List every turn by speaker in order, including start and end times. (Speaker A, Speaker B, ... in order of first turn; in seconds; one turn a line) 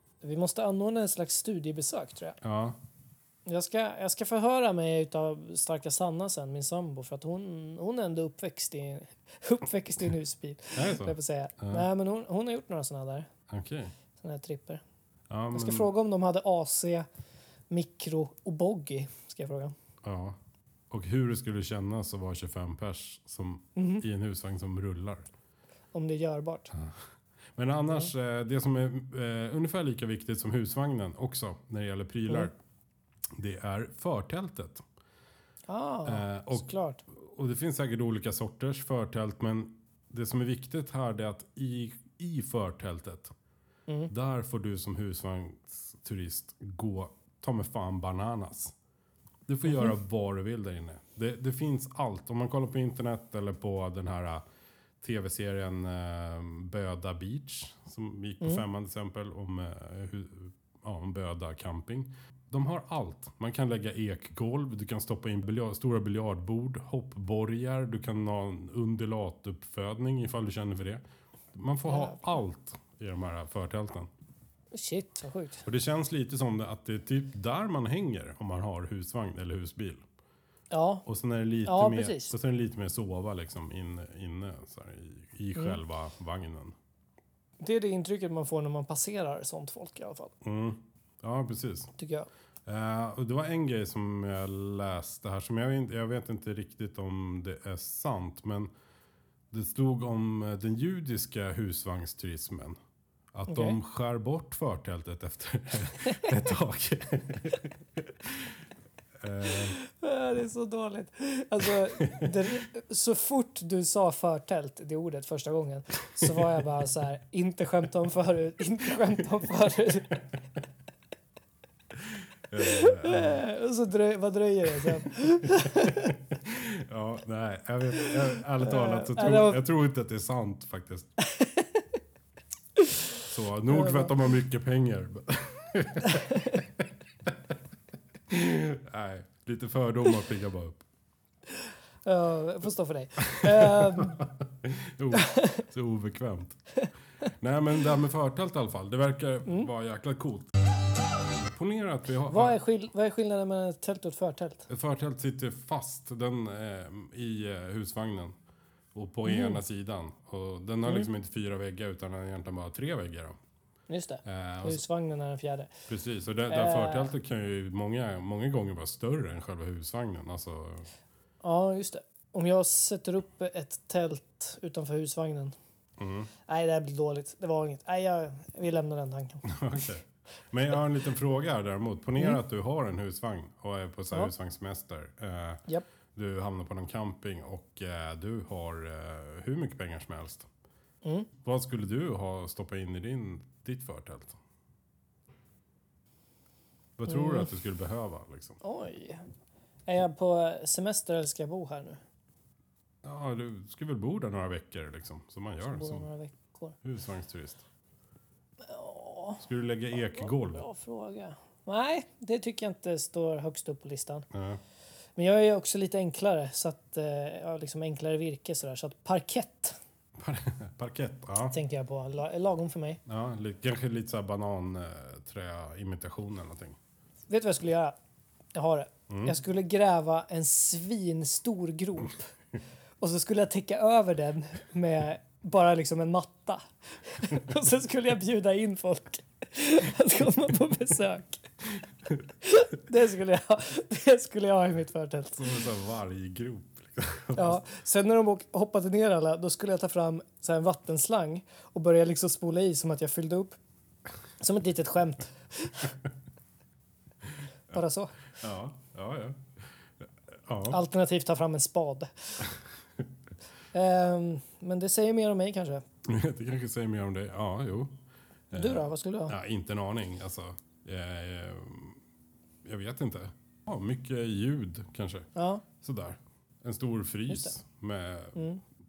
Speaker A: 0.2-2.4
Speaker B: 2.4-2.8
Speaker A: 3.5-13.3
Speaker B: 10.7-11.9
Speaker B: 13.5-13.9
Speaker A: 14.2-14.8
Speaker B: 15.3-15.9
Speaker A: 15.5-17.1
Speaker A: 17.7-19.7
Speaker B: 20.0-20.4
Speaker B: 20.9-25.3
Speaker A: 23.8-24.0
Speaker A: 25.9-26.7
Speaker B: 26.7-27.0
Speaker B: 27.6-32.6
Speaker B: 33.4-34.8
Speaker A: 35.7-37.0
Speaker B: 36.0-43.3
Speaker B: 44.1-48.7
Speaker B: 49.5-54.4
Speaker A: 49.7-49.9
Speaker B: 55.0-74.1
Speaker A: 71.9-72.2
Speaker A: 74.7-75.6
Speaker B: 75.6-80.0
Speaker A: 80.7-81.0
Speaker B: 81.0-86.7
Speaker A: 81.6-82.3
Speaker A: 87.6-90.3
Speaker B: 90.4-91.9
Speaker A: 92.0-92.3
Speaker B: 92.7-98.7
Speaker B: 99.5-102.8
Speaker B: 103.3-108.6
Speaker A: 103.5-103.8
Speaker B: 109.2-109.8
Speaker A: 109.8-120.2
Speaker B: 112.0-112.3
Speaker B: 122.5-123.4
Speaker A: 122.6-126.1
Speaker B: 124.8-131.1
Speaker A: 128.6-129.6
Speaker A: 131.3-131.7
Speaker B: 133.2-137.3
Speaker A: 133.7-134.1
Speaker A: 136.1-136.6
Speaker B: 138.3-140.8
Speaker A: 142.0-144.2
Speaker B: 143.2-146.6
Speaker A: 145.1-145.6
Speaker B: 147.4-150.5
Speaker B: 151.4-152.6
Speaker A: 152.3-154.7
Speaker B: 154.7-158.3
Speaker B: 158.9-163.4
Speaker A: 159.2-159.6
Speaker A: 163.9-165.7
Speaker B: 164.2-164.8
Speaker B: 165.9-170.9
Speaker A: 166.5-167.1
Speaker A: 171.4-175.5
Speaker B: 176.0-176.3
Speaker A: 176.5-179.5
Speaker B: 179.4-190.5
Speaker A: 191.0-191.3
Speaker B: 191.4-194.3
Speaker B: 197.0-198.6
Speaker A: 197.1-197.5
Speaker A: 198.6-199.2
Speaker A: 199.9-202.0
Speaker B: 203.0-206.1
Speaker A: 205.7-206.8
Speaker B: 206.8-207.6
Speaker A: 208.6-209.4
Speaker B: 209.4-210.7
Speaker A: 210.0-214.2
Speaker B: 214.3-214.6
Speaker A: 215.2-219.8
Speaker B: 220.2-221.6
Speaker A: 221.5-223.0
Speaker B: 223.1-226.8
Speaker A: 227.3-227.9
Speaker A: 228.5-232.3
Speaker B: 229.1-229.3
Speaker A: 233.0-241.5
Speaker A: 242.4-245.5
Speaker B: 245.3-247.6
Speaker A: 247.3-253.6
Speaker A: 254.4-255.9
Speaker A: 257.7-258.2
Speaker B: 258.4-260.8
Speaker A: 260.7-262.4
Speaker A: 263.7-265.8
Speaker B: 266.0-267.9
Speaker B: 268.5-272.0
Speaker A: 268.5-269.3
Speaker B: 272.6-278.4
Speaker A: 275.3-275.6
Speaker A: 277.3-277.6
Speaker A: 278.3-278.6